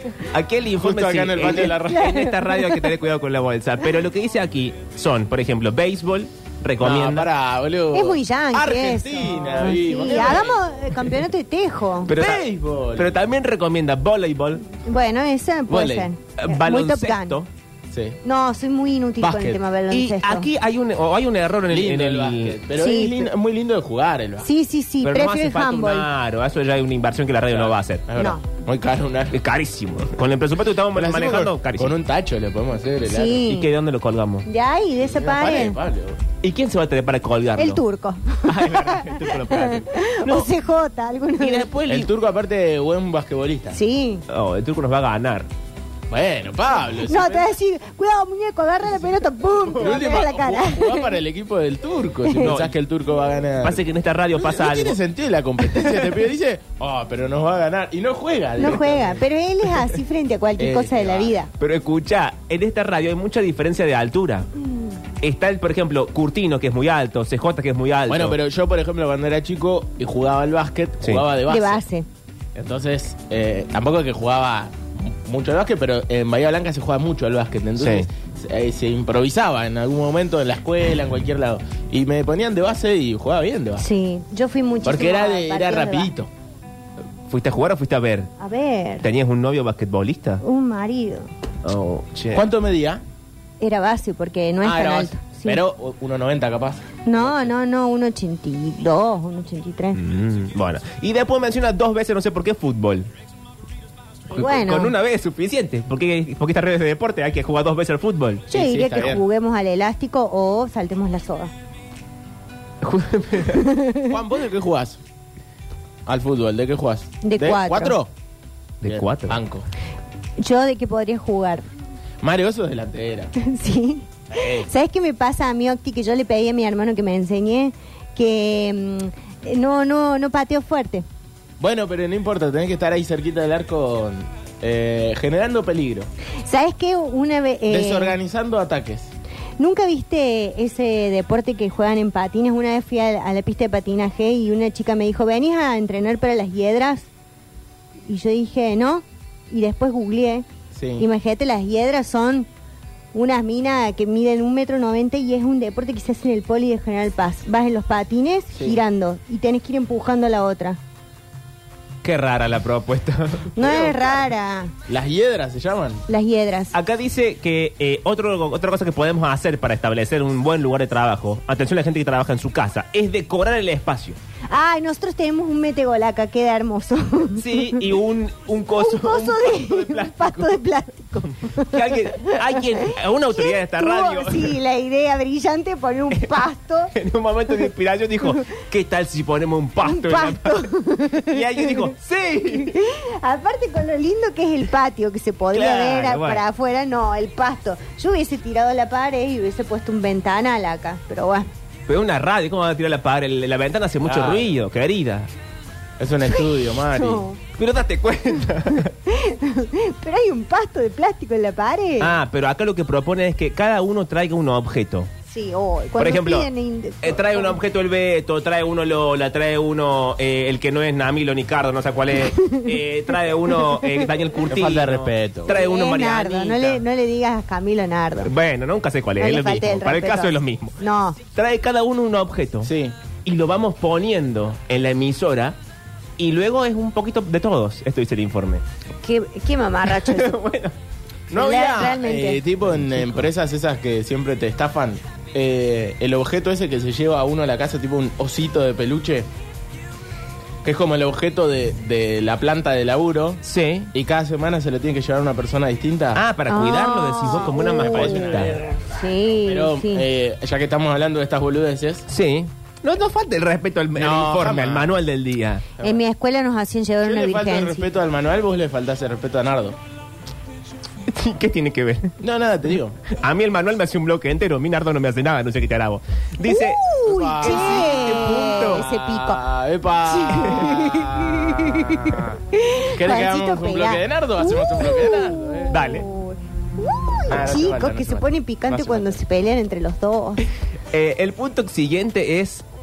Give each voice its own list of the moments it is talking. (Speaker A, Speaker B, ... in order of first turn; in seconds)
Speaker A: 0.3-7.3, 12.1-14.6, 16.4-17.5, 19.9-22.6, 25.0-28.0, 29.3-31.9, 33.4-34.5, 36.4-37.8, 38.5-40.5, 41.4-42.1, 44.3-45.5, 52.4-52.7, 53.6-55.0, 61.6-64.5, 65.2-68.4, 77.8-78.1, 87.3-88.3, 89.0-90.4, 91.6-92.5, 99.9-103.1, 104.3-108.5, 112.8-113.7, 118.8-119.4, 162.0-164.2, 166.7-174.2, 177.4-180.6, 181.6-184.6, 186.9-192.8, 195.5-196.4, 201.9-205.3, 207.6-208.9, 212.0-215.1, 216.0-216.5, 217.0-226.8, 228.2-230.8, 231.3-232.7, 233.2-235.6, 236.2-238.6, 239.9-240.8, 253.4-253.9, 256.1-258.6, 262.1-265.7, 271.1-272.1, 273.1-278.8, 285.7-286.1, 290.9-292.6
Speaker B: 0.8-2.2, 6.8-10.6, 12.1-13.1, 15.7-16.1, 17.9-18.2, 19.2-19.6, 21.7-24.5, 27.5-29.4, 30.9-33.5, 35.1-36.2, 41.9-43.8, 46.1-47.5, 49.8-59.2, 60.6-61.4, 68.1-71.8, 72.5-83.8, 84.8-86.3, 92.3-93.0, 94.6-97.5, 108.5-109.2, 114.1-115.0, 116.0-118.1, 118.8-119.7, 122.2-123.3, 124.3-124.7, 131.6-136.1, 137.7-139.1, 150.7-151.1, 158.5-158.8, 164.9-166.0, 204.0-204.5, 206.0-207.2, 224.4-225.6, 232.6-232.9, 241.3-249.3, 250.6-253.4, 253.9-256.2, 257.2-258.7, 259.4-262.1, 263.9-264.9, 267.0-269.8, 272.2-273.0, 277.0-282.4, 282.9-285.8, 287.3-289.2
Speaker C: 1.8-2.8, 7.9-12.1, 14.8-17.4, 18.2-20.5, 22.8-23.3, 24.4-26.1, 28.1-28.4, 33.0-33.7, 34.5-35.8, 37.6-41.7, 43.7-44.2, 47.1-51.1, 52.2-52.5, 58.6-61.5, 71.5-72.1, 83.8-86.1, 88.4-89.0, 90.4-91.3, 93.6-95.6, 97.0-100.0, 104.3-104.9, 108.5-111.5, 113.5-114.1, 117.2-118.0, 120.4-121.7, 123.4-131.0, 136.4-138.2, 139.6-147.1, 148.1-150.4, 151.0-152.5, 153.1-160.8, 163.6-164.7, 166.1-166.7, 174.5-177.8, 178.8-186.9, 189.8-191.9, 192.5-201.5, 206.8-207.4, 209.0-212.1, 215.3-217.6, 222.4-222.7, 225.5-228.3, 229.2-231.2, 239.0-240.3, 241.3-242.4, 256.5-260.1, 265.8-267.9, 276.4-279.4, 280.1-290.4